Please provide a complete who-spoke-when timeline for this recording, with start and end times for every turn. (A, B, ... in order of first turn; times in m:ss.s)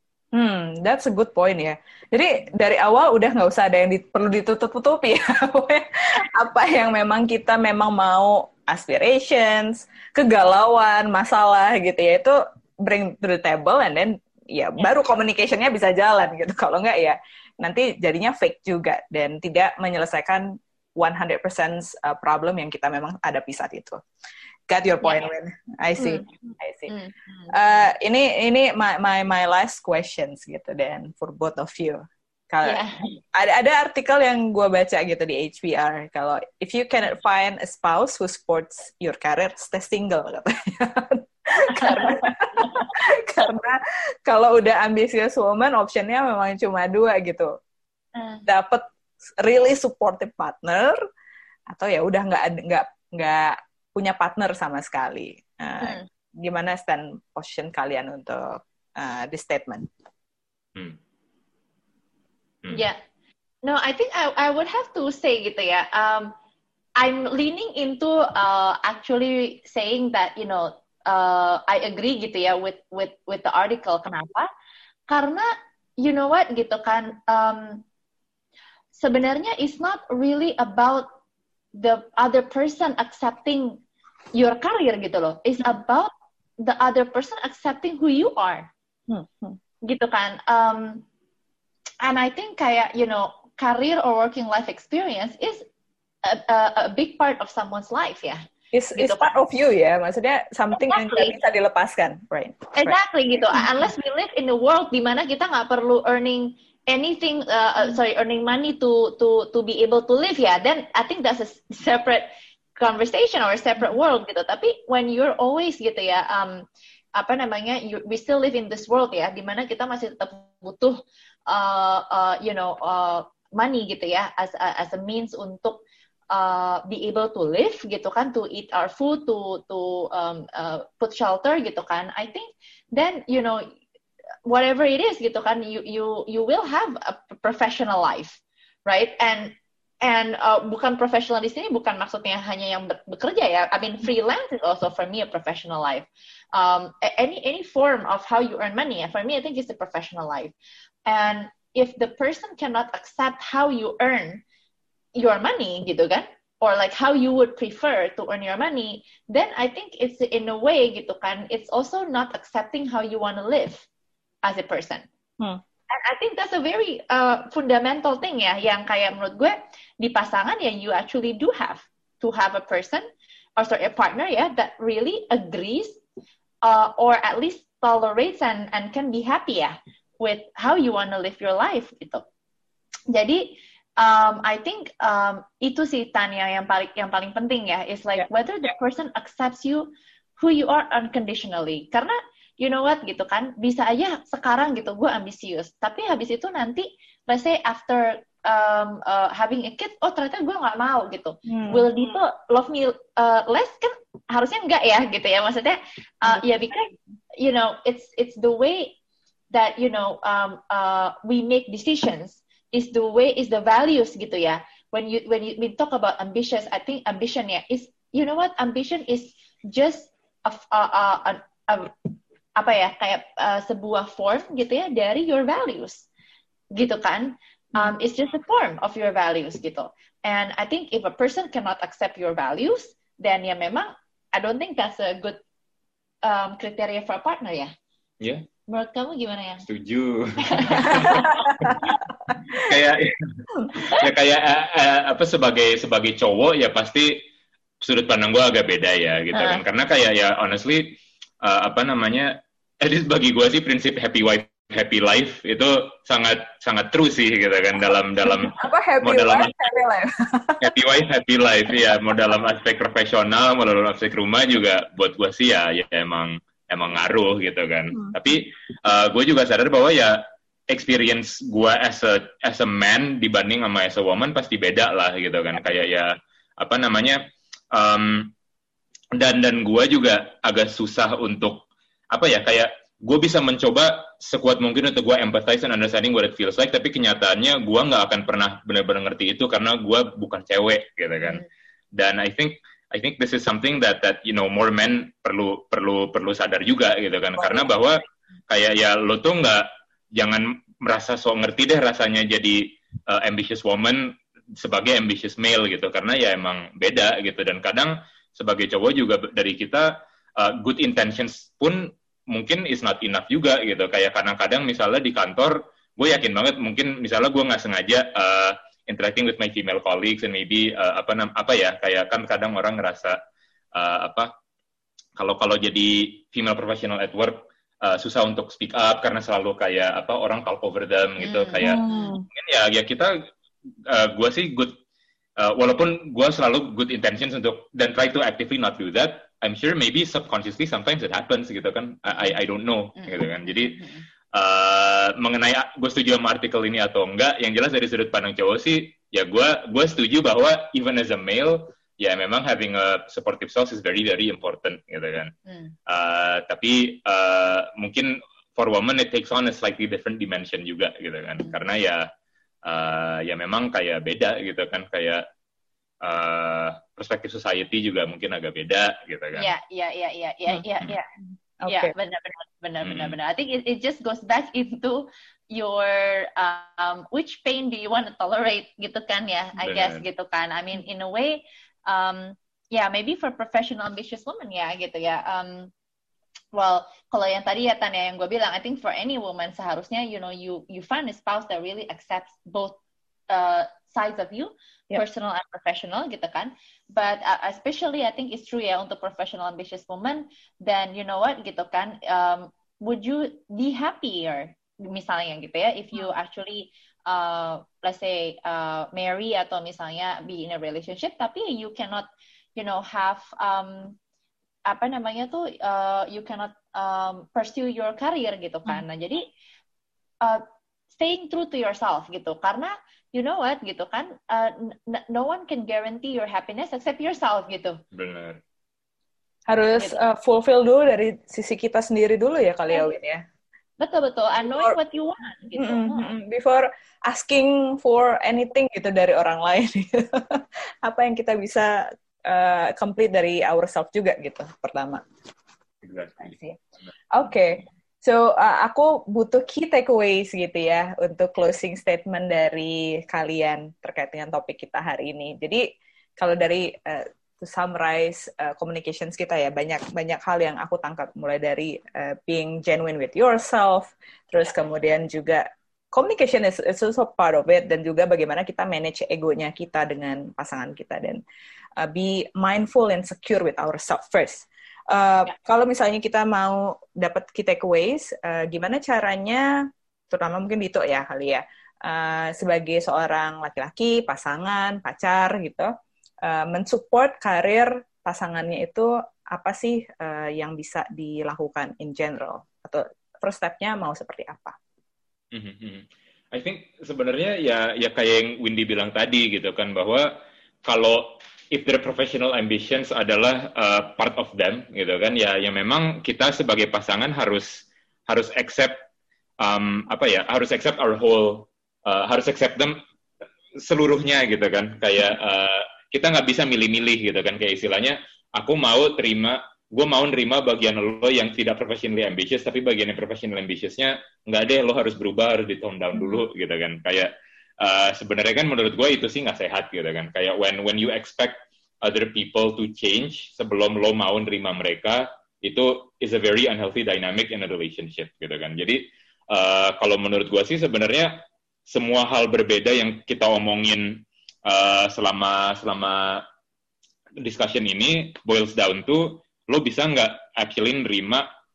0:00.3-0:24.0 A
0:24.7-0:26.9 A
0:25.0-0:25.3 B
0:26.0-0:27.6 B
0:27.5-0:47.5 A
0:32.6-0:33.0 B
0:41.7-0:43.0 B
0:48.2-0:48.5 B
0:48.5-0:48.9 A
0:49.4-0:51.0 A
0:51.7-0:59.9 A
0:55.8-0:56.1 B
1:02.7-1:03.0 B
1:03.6-1:06.3 B
1:07.0-1:14.5 B
1:15.1-1:17.8 B
1:18.9-1:21.1 B
1:21.8-1:23.8 B
1:24.4-1:28.7 B
1:29.1-1:29.6 A
1:29.8-1:31.1 B
1:32.0-1:35.6 B
1:36.2-1:38.4 B
1:38.7-1:43.0 A
1:39.0-1:39.3 B
1:40.7-1:41.4 B
1:42.8-2:13.7 B
2:14.5-2:30.5 B
2:31.1-2:34.4 B
2:35.2-2:43.9 B
2:44.4-2:45.1 B
2:45.9-2:53.0 B
2:53.6-2:56.0 B
2:56.6-3:02.2 B
3:03.1-3:29.0 B
3:21.5-3:21.9 A
3:29.5-3:41.9 B
3:42.6-3:46.1 B
3:46.7-3:55.4 B
3:56.2-3:57.7 B
3:58.7-3:59.6 B
3:59.7-4:01.9 C
4:00.4-4:01.5 B
4:02.5-4:07.2 C
4:07.8-4:19.6 C
4:09.3-4:09.6 B
4:18.3-4:20.7 A
4:20.6-4:38.3 C
4:39.2-4:51.4 C
4:52.0-5:23.2 C
5:23.7-5:24.3 C
5:25.2-5:33.2 C
5:31.2-5:32.1 B
5:31.6-5:32.3 A
5:33.9-5:34.8 C
5:35.4-5:43.8 C
5:43.0-5:44.0 B
5:44.3-5:55.3 C
5:55.5-5:55.7 B
5:55.9-6:02.1 C
6:02.6-6:05.2 C
6:06.0-6:09.5 C
6:09.4-6:11.1 B
6:11.6-6:11.9 A
6:11.7-6:25.7 B
6:12.8-6:13.2 C
6:19.6-6:20.0 C
6:26.5-6:32.8 B
6:33.3-6:54.0 B
6:54.7-6:59.3 B
7:01.0-7:07.8 B
7:07.9-7:08.4 C
7:09.5-7:13.2 A
7:13.8-7:16.1 B
7:15.6-7:21.7 A
7:22.2-7:25.0 A
7:25.8-7:26.3 C
7:26.2-7:26.6 A
7:27.1-7:35.6 A
7:36.2-7:51.2 A
7:51.8-7:59.5 A
8:00.1-8:05.7 A
8:06.2-8:14.6 A
8:15.3-8:20.1 C
8:20.6-8:28.8 C
8:29.4-8:32.8 C
8:33.6-9:06.2 C
9:07.2-9:11.3 C